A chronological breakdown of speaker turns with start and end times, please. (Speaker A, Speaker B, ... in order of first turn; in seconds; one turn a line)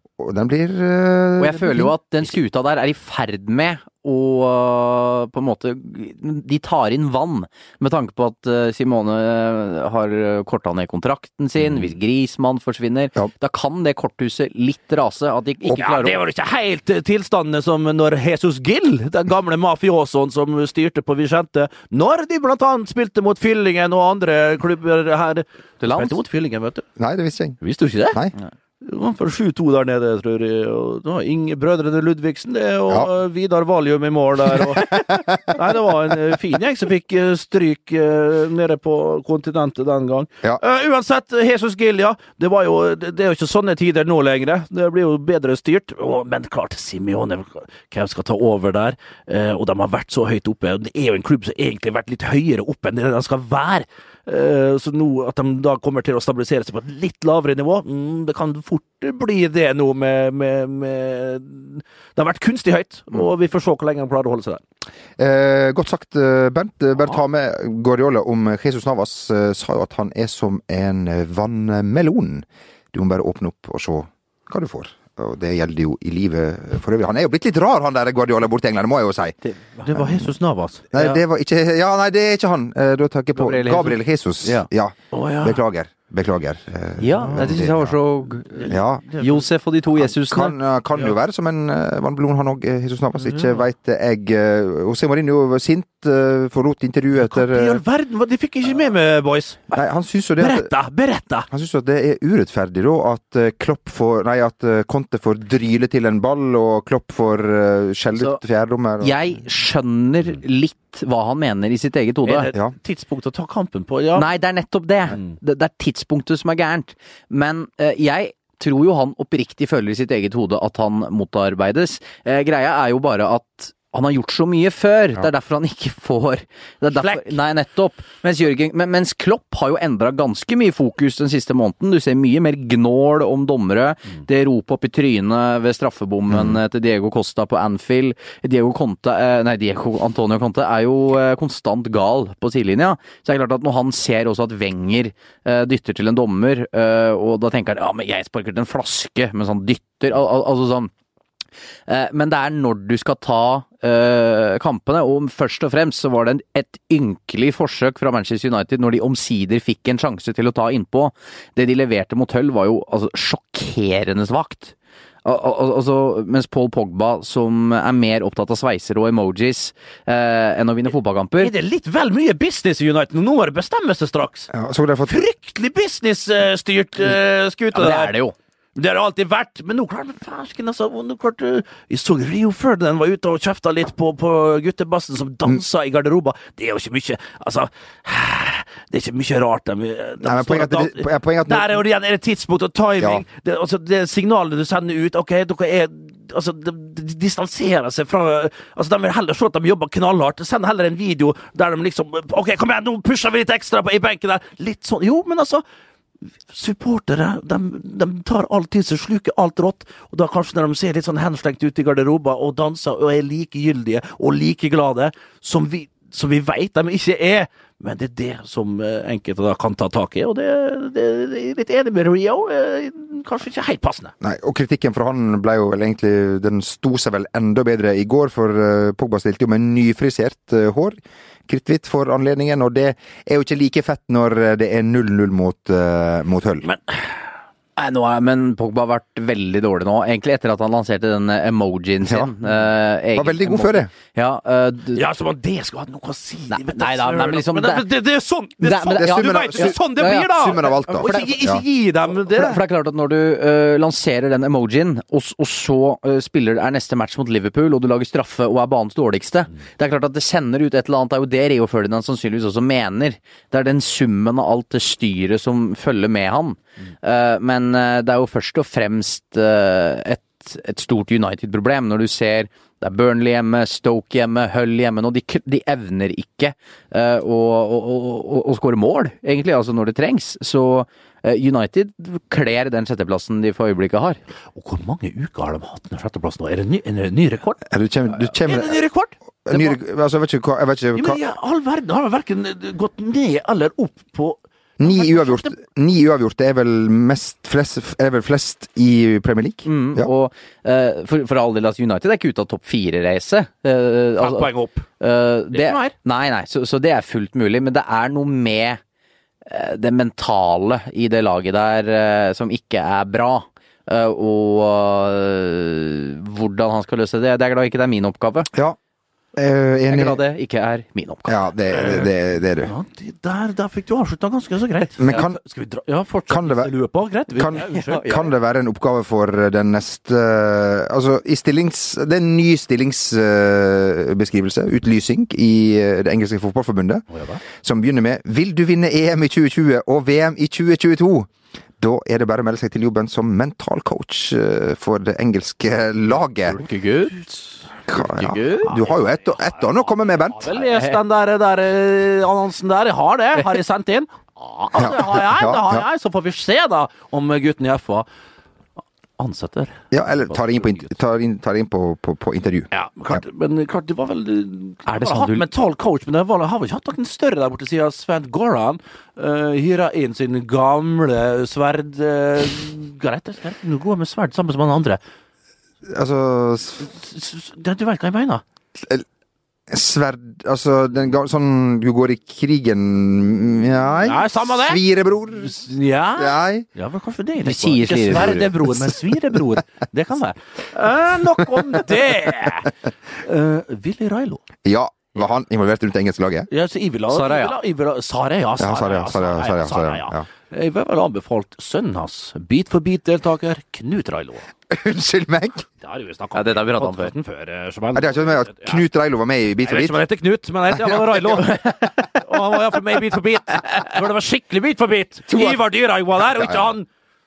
Speaker A: 0.2-2.0
Speaker B: 1.4-16.2
Speaker C: 15.7-26.9
Speaker B: 25.8-26.2
Speaker A: 27.0-27.6
Speaker C: 27.6-28.2
Speaker C: 28.8-64.6
Speaker A: 34.6-35.6
Speaker A: 65.2-79.4
Speaker B: 79.4-79.9
Speaker C: 79.9-81.2
Speaker A: 80.9-88.0
Speaker B: 83.3-84.7
Speaker C: 85.1-85.6
Speaker B: 87.0-90.5
Speaker C: 87.2-87.6
Speaker C: 88.5-89.5
Speaker A: 88.7-89.1
Speaker A: 90.0-97.8
Speaker C: 97.2-99.8
Speaker A: 99.7-100.7
Speaker C: 100.4-101.5
Speaker A: 101.5-109.2
Speaker B: 109.0-112.5
Speaker C: 112.2-114.3
Speaker B: 114.2-150.9
Speaker C: 126.9-127.4
Speaker A: 136.3-136.6
Speaker B: 151.9-164.7
Speaker B: 165.2-171.5
Speaker C: 171.4-174.5
Speaker A: 174.5-175.2
Speaker C: 175.1-178.2
Speaker B: 177.7-178.3
Speaker C: 178.8-205.6
Speaker A: 190.2-191.8
Speaker A: 193.0-193.2
Speaker C: 206.5-224.1
Speaker A: 224.2-231.0
Speaker A: 231.5-236.7
Speaker C: 236.6-237.1
Speaker B: 237.8-245.0
Speaker A: 242.0-242.3
Speaker A: 243.1-243.9
Speaker C: 244.9-252.6
Speaker B: 246.5-247.9
Speaker B: 248.6-251.4
Speaker A: 249.0-251.6
Speaker A: 252.3-252.6
Speaker B: 252.4-284.2
Speaker C: 284.6-287.7
Speaker A: 287.7-288.8
Speaker C: 288.2-289.8
Speaker A: 289.4-291.2
Speaker C: 290.9-295.5
Speaker A: 294.8-300.1
Speaker B: 299.6-308.8
Speaker C: 304.2-304.9
Speaker C: 305.5-305.9
Speaker B: 309.5-318.5
Speaker A: 319.4-320.2
Speaker B: 319.9-321.4
Speaker A: 321.3-322.7
Speaker C: 321.7-322.1
Speaker C: 322.6-328.1
Speaker A: 325.0-325.4
Speaker A: 326.3-326.7
Speaker A: 327.3-337.0
Speaker B: 327.6-328.3
Speaker C: 337.1-337.4
Speaker A: 337.6-346.6
Speaker B: 346.5-347.2
Speaker C: 347.1-347.6
Speaker A: 347.9-350.5
Speaker B: 348.0-348.7
Speaker C: 348.7-358.1
Speaker A: 354.8-355.9
Speaker C: 359.2-360.9
Speaker A: 359.9-363.2
Speaker C: 362.7-375.0
Speaker B: 364.9-365.5
Speaker A: 375.9-376.9
Speaker C: 376.9-378.4
Speaker A: 379.7-385.6
Speaker C: 384.0-384.8
Speaker C: 385.4-394.4
Speaker A: 386.2-386.7
Speaker B: 387.4-388.5
Speaker A: 391.5-392.5
Speaker A: 394.6-396.5
Speaker C: 396.5-404.5
Speaker B: 397.1-397.6
Speaker A: 398.6-400.2
Speaker A: 404.7-405.6
Speaker C: 405.8-408.9
Speaker B: 406.4-407.1
Speaker A: 407.9-410.0
Speaker C: 409.6-416.9
Speaker A: 410.7-411.5
Speaker A: 415.3-415.6
Speaker A: 416.2-416.7